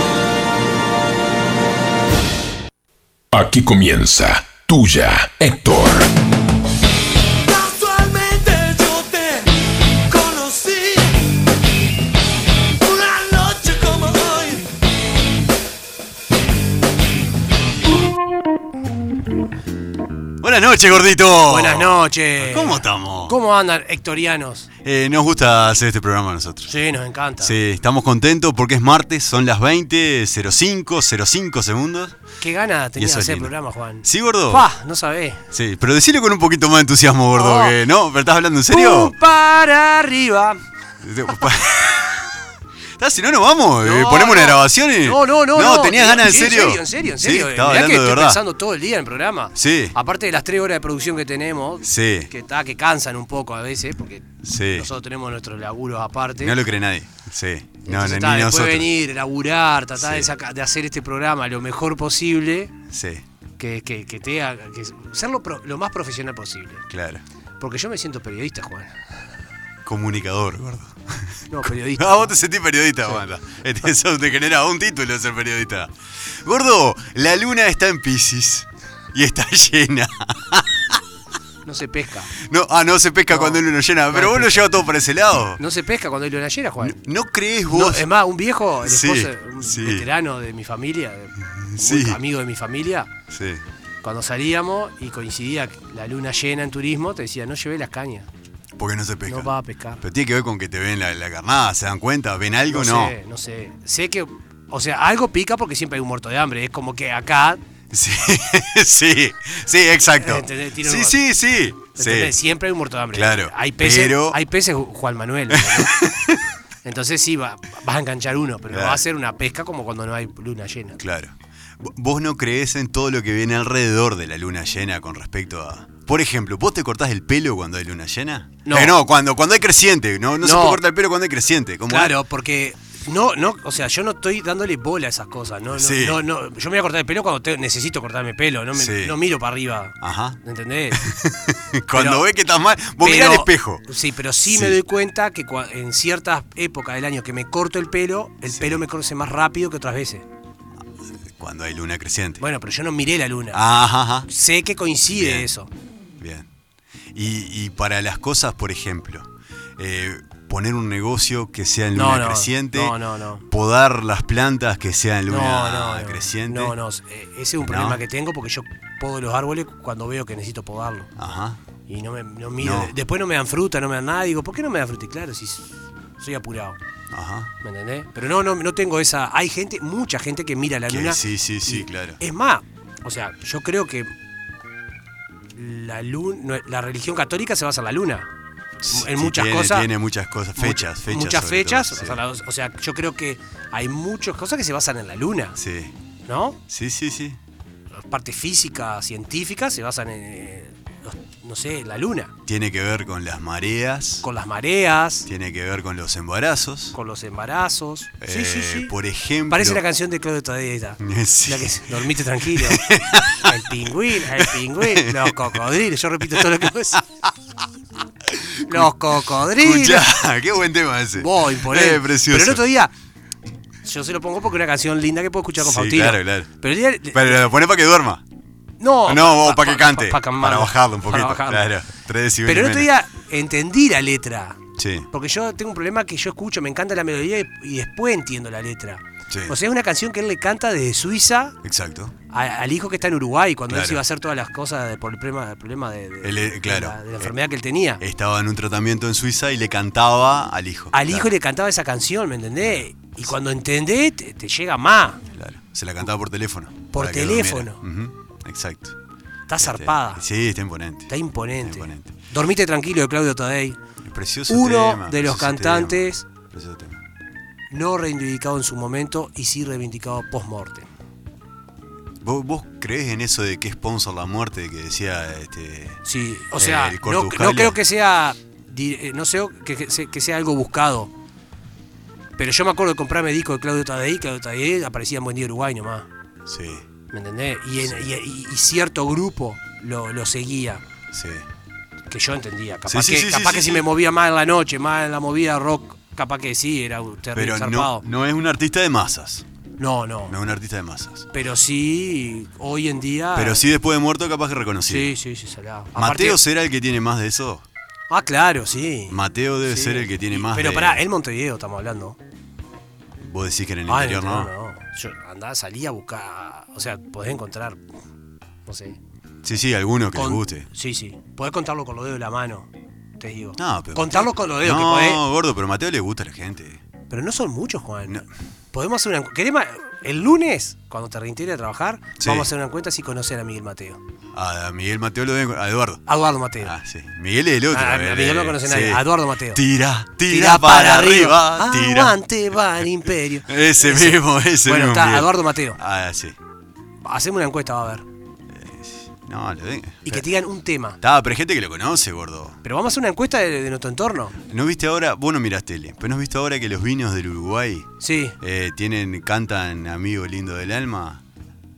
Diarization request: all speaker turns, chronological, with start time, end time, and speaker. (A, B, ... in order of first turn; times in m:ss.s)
0:03.3-0:06.1 A
0:07.4-0:09.5 B
0:10.1-0:11.3 B
0:12.8-0:14.7 B
0:20.4-0:23.4 C
0:21.5-0:24.7 D
0:24.8-0:26.7 C
0:26.7-0:27.6 D
0:27.4-0:32.2 C
0:32.4-0:35.4 D
0:33.0-0:34.7 C
0:35.5-0:39.2 C
0:37.3-0:37.8 D
0:38.7-0:40.6 D
0:41.0-0:42.3 C
0:43.0-0:48.4 C
0:43.8-0:56.6 D
0:49.5-0:50.0 C
0:51.8-0:52.3 C
0:54.4-0:54.9 C
0:56.4-0:58.9 C
0:57.8-1:02.7 D
1:00.0-1:00.3 C
1:02.9-1:03.2 C
1:03.6-1:06.9 D
1:06.9-1:07.2 C
1:07.6-1:08.9 D
1:09.8-1:15.9 C
1:11.5-1:12.4 D
1:16.4-1:21.0 C
1:21.6-1:22.3 D
1:22.4-1:25.6 C
1:23.3-1:24.7 D
1:25.6-1:27.0 D
1:26.8-1:28.1 C
1:27.7-1:33.1 D
1:28.8-1:30.1 C
1:31.4-1:32.2 C
1:33.3-1:33.6 C
1:34.0-1:38.3 D
1:38.8-1:43.2 C
1:39.3-1:40.0 D
1:42.7-1:47.6 D
1:47.9-1:52.4 C
1:50.1-1:51.2 D
1:51.9-1:55.9 D
1:53.1-1:54.4 C
1:55.5-1:56.4 C
1:56.8-2:01.0 D
1:58.7-1:59.0 C
2:01.0-2:12.2 C
2:08.6-2:09.0 D
2:10.4-2:10.8 D
2:11.9-2:21.0 D
2:15.7-2:16.2 C
2:18.8-2:19.2 C
2:20.0-2:20.4 C
2:20.9-2:23.8 C
2:21.9-2:22.2 D
2:23.0-2:30.2 D
2:24.4-2:24.8 C
2:28.5-2:28.8 C
2:31.4-2:32.4 C
2:32.4-2:33.6 D
2:33.5-2:34.3 C
2:34.3-2:35.7 D
2:35.1-2:35.5 C
2:36.2-2:36.5 C
2:37.1-2:46.8 C
2:41.9-2:43.4 D
2:45.3-2:51.1 D
2:47.6-2:48.0 C
2:51.2-2:51.6 C
2:51.9-2:56.8 D
2:52.6-2:52.9 C
2:57.1-2:57.5 C
2:57.6-3:04.1 D
3:00.9-3:02.2 C
3:05.6-3:08.3 D
3:08.8-3:12.2 C
3:08.9-3:09.9 D
3:10.6-3:15.6 D
3:15.6-3:15.9 C
3:16.3-3:16.6 D
3:16.7-3:17.4 C
3:18.0-3:22.3 D
3:22.5-3:24.2 C
3:24.2-3:25.3 D
3:25.3-3:27.0 C
3:26.9-3:28.9 D
3:28.2-3:29.8 C
3:29.5-3:37.0 D
3:31.0-3:33.6 C
3:34.3-3:35.6 C
3:36.3-3:37.3 C
3:38.2-3:42.6 C
3:38.7-3:40.0 D
3:41.2-3:42.9 D
3:43.8-3:47.5 D
3:45.6-3:46.5 C
3:47.1-3:48.2 C
3:48.8-3:51.7 D
3:49.1-3:52.9 C
3:52.4-3:54.6 D
3:54.8-3:55.1 C
3:55.1-4:01.6 D
3:59.3-3:59.6 C
4:01.6-4:02.1 C
4:02.3-4:08.0 D
4:03.7-4:04.0 C
4:06.2-4:07.3 C
4:08.0-4:11.3 C
4:10.9-4:15.2 D
4:12.6-4:13.3 C
4:15.3-4:19.0 C
4:16.9-4:17.8 D
4:19.5-4:20.2 D
4:19.6-4:22.2 C
4:21.1-4:23.8 D
4:24.0-4:27.0 C
4:24.5-4:26.2 D
4:27.7-4:30.9 D
4:32.2-4:36.0 C
4:36.0-4:41.1 D
4:36.6-4:37.8 C
4:42.4-4:46.1 D
4:46.5-4:46.9 C
4:47.1-4:50.8 D
4:47.8-4:48.0 C
4:51.1-4:51.5 C
4:52.1-4:58.1 D
4:52.9-4:53.9 C
4:57.4-4:59.4 C
4:59.8-5:00.4 D
5:00.3-5:01.3 C
5:01.3-5:03.7 D
5:03.4-5:05.2 C
5:04.9-5:06.4 D
5:06.0-5:07.6 C
5:08.1-5:12.2 D
5:09.1-5:11.0 C
5:13.2-5:14.5 C
5:13.9-5:17.8 D
5:18.7-5:19.0 D
5:19.4-5:20.7 C
5:20.2-5:25.2 D
5:23.6-5:26.8 C
5:27.1-5:34.0 D
5:32.2-5:32.5 C
5:34.3-5:36.0 C
5:36.1-5:36.8 D
5:36.6-5:42.2 C
5:37.7-5:39.6 D
5:40.3-5:45.8 D
5:43.5-5:46.4 C
5:47.0-5:48.1 D
5:48.5-5:50.2 C
5:50.1-5:51.0 D
5:51.0-5:52.6 C
5:52.6-5:54.4 D
5:54.5-6:01.2 C
5:58.0-5:58.4 D